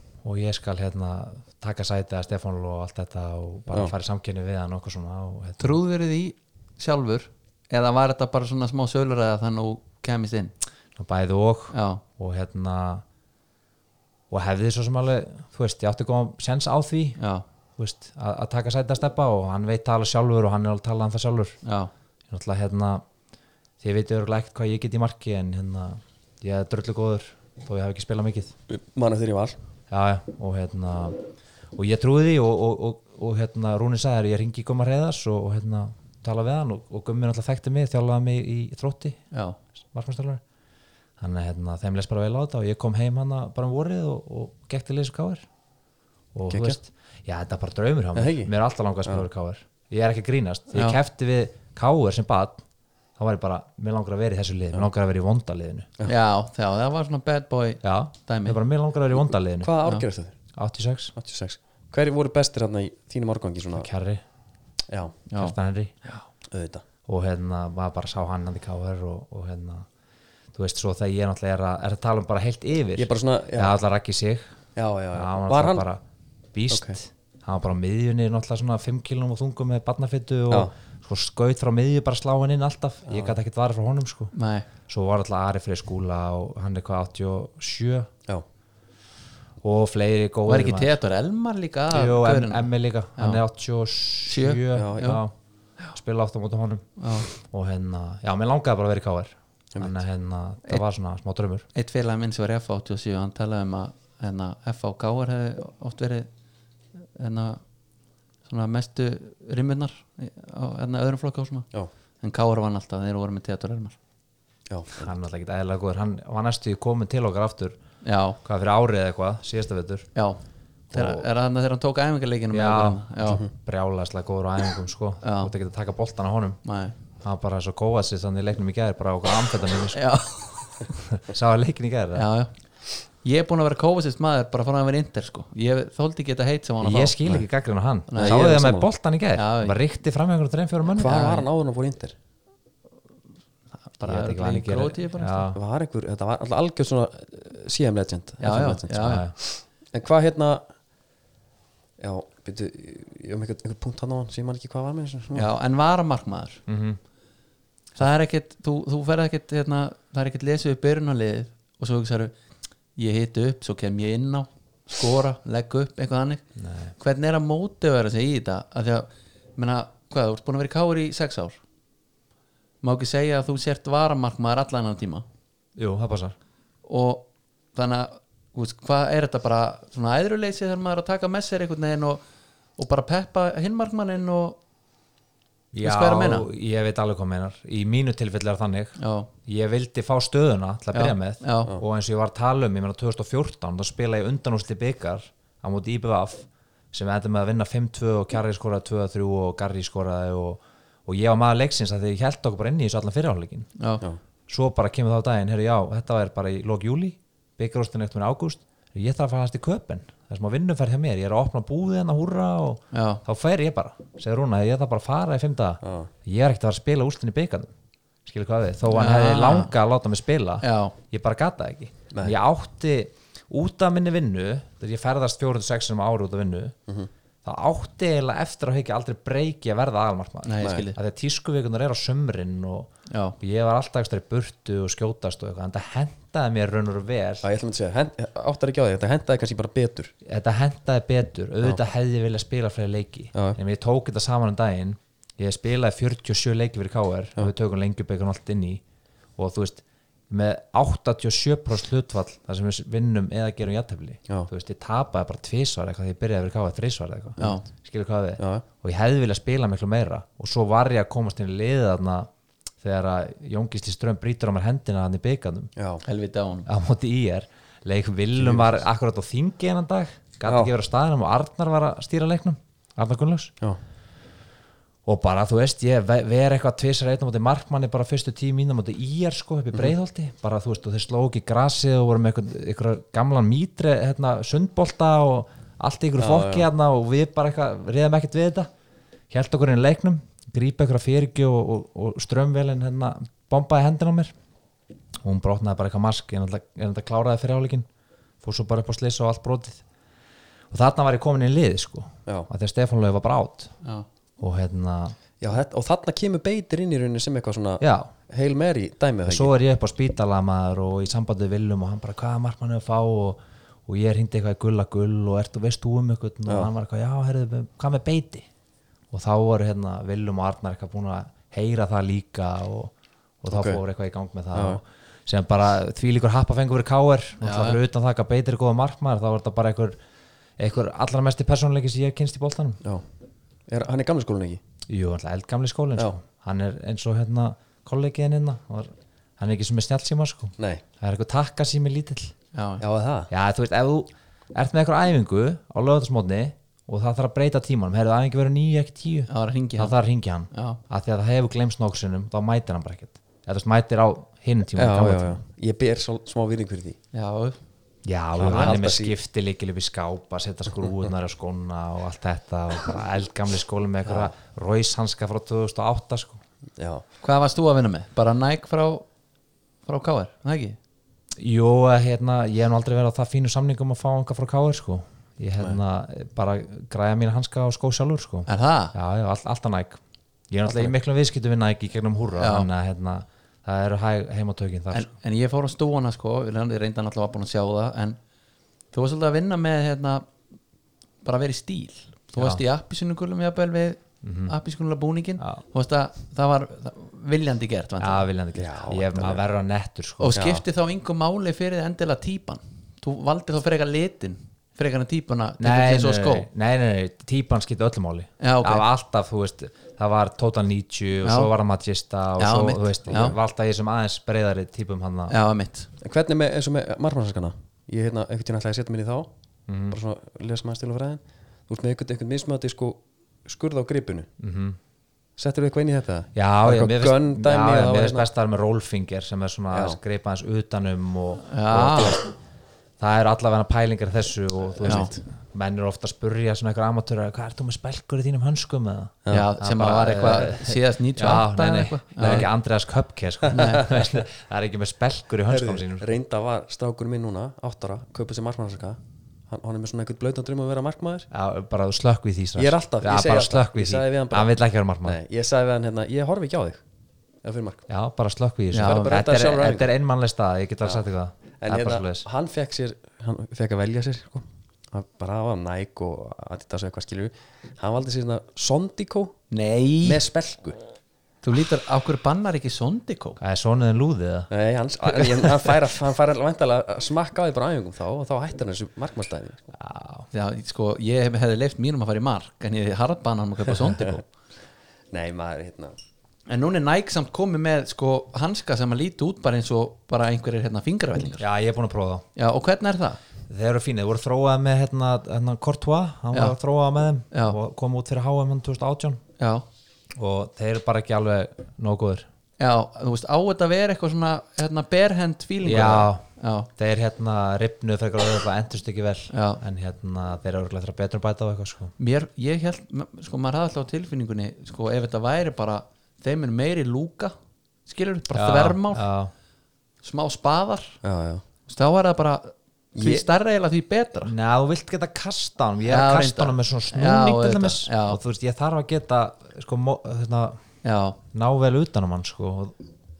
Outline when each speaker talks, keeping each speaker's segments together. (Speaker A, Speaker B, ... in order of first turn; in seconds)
Speaker A: 0.2-5.8, 10.9-13.0, 14.3-17.2, 17.8-21.6, 22.3-23.0, 23.8-28.5, 29.9-31.2, 31.8-39.2, 39.9-40.4, 41.2-45.4, 46.3-52.6, 53.2-55.9, 57.8-59.7, 60.5-61.1, 63.8-64.2, 65.4-65.9, 67.1-69.8, 70.5-74.5, 75.1-76.0, 76.5-84.3, 84.9-88.1, 89.6-91.0, 91.9-95.3, 95.9-101.7, 114.9-117.8, 118.4-120.1, 120.9-121.3, 122.5-126.6, 127.2-130.0, 130.8-132.3, 136.8-141.3, 144.0-145.6, 148.9-149.3, 156.7-157.0, 166.6-166.9, 175.8-176.3, 185.7-203.7, 204.5-217.7, 218.2-226.7, 227.4-237.4, 240.2-248.8, 249.4-262.3, 262.8-265.7, 266.7-273.5, 275.1-288.7, 289.3-294.3, 295.2-297.9, 298.4-299.8, 300.7-303.7, 304.4-305.1, 307.8-308.1, 309.3-318.4, 319.1-330.0, 330.6-332.8, 334.9-342.3, 343.3-355.4, 358.0-366.4, 371.4-380.0, 380.5-385.1, 392.4-392.6, 394.2-394.5, 395.4-395.6, 398.0-400.4, 405.6-415.4, 419.7-420.0, 424.4-424.8, 426.4-432.3, 433.0-446.1, 451.3-455.2, 457.9-462.3, 473.4-474.5, 479.8-480.3, 491.4-492.2, 493.5-499.2, 500.1-502.2, 505.6-506.2, 506.8-511.9, 518.3-519.3, 524.2-530.6, 531.3-532.8
Speaker B: 5.6-10.5, 11.7-12.0, 17.2-17.4, 21.6-21.9, 39.3-39.6, 50.7-51.0, 56.0-58.6, 65.3-66.2, 84.3-84.7, 90.5-93.4, 94.3-95.2, 97.0-97.3, 101.7-106.3, 107.2-107.6, 108.5-111.7, 112.2-114.0, 118.0-118.4, 120.1-123.4, 125.2-125.5, 126.6-126.9, 129.9-130.8, 132.1-132.5, 133.2-137.2, 138.1-138.4, 139.3-139.8, 141.0-141.4, 144.0-145.5, 148.4-149.2, 155.3-156.6, 157.9-162.3, 162.9-166.4, 167.0-171.6, 172.8-175.2, 176.8-182.2, 182.8-184.6, 185.8-186.5, 189.0-189.3, 190.9-191.7, 212.9-213.2, 218.9-219.7, 220.6-220.9, 230.4-231.0, 233.1-233.3, 257.4-257.6, 266.0-266.7, 327.4-327.8, 342.5-342.8, 349.3-349.9, 350.5-350.8, 357.1-357.6, 367.2-369.1, 369.9-370.8, 378.5-378.9, 382.4-382.7, 384.9-388.2, 388.9-390.2, 391.2-398.2, 400.2-406.5, 408.4-408.9, 411.2-411.5, 412.4-413.4, 415.3-415.9, 431.5-432.2, 434.8-435.1, 439.3-442.5, 443.5-443.9, 458.7-459.2, 469.5-470.2, 471.4-473.4, 480.3-484.2, 486.5-491.4, 492.4-493.2, 497.3-497.6, 499.4-499.6, 502.6-506.7, 509.3-509.6, 512.0-517.3, 517.9-519.1, 520.0-521.0, 521.7-524.3, 525.9-528.2, 530.8-531.2
Speaker C: 28.7-29.6, 46.5-46.8, 48.1-48.5, 59.6-60.4, 61.1-63.9, 64.9-65.2, 66.5-66.8, 73.0-73.8, 74.8-75.8, 76.7-76.9, 83.1-83.3, 94.7-95.2, 114.7-115.1, 138.2-138.9, 140.9-142.1, 145.5-150.6, 152.0-155.5, 215.8-216.1, 237.4-240.1, 258.4-258.6, 265.8-266.0, 268.4-268.8, 270.4-270.7, 286.2-286.7, 305.4-309.6, 316.5-316.7, 323.5-323.8, 324.5-324.8, 333.7-334.6, 340.6-340.8, 342.8-343.3, 354.8-357.0, 358.4-359.1, 364.1-364.3, 366.8-367.0, 398.5-399.4, 400.3-400.6, 413.1-413.4, 416.0-419.3, 419.9-424.3, 425.4-428.3, 429.7-430.0, 434.8-435.2, 442.2-442.5, 443.4-444.2, 445.5-451.3, 452.6-456.8, 457.4-457.9, 458.8-459.9, 461.6-469.4, 470.0-470.8, 474.5-479.6, 485.1-485.9, 521.0-521.4, 522.9-523.2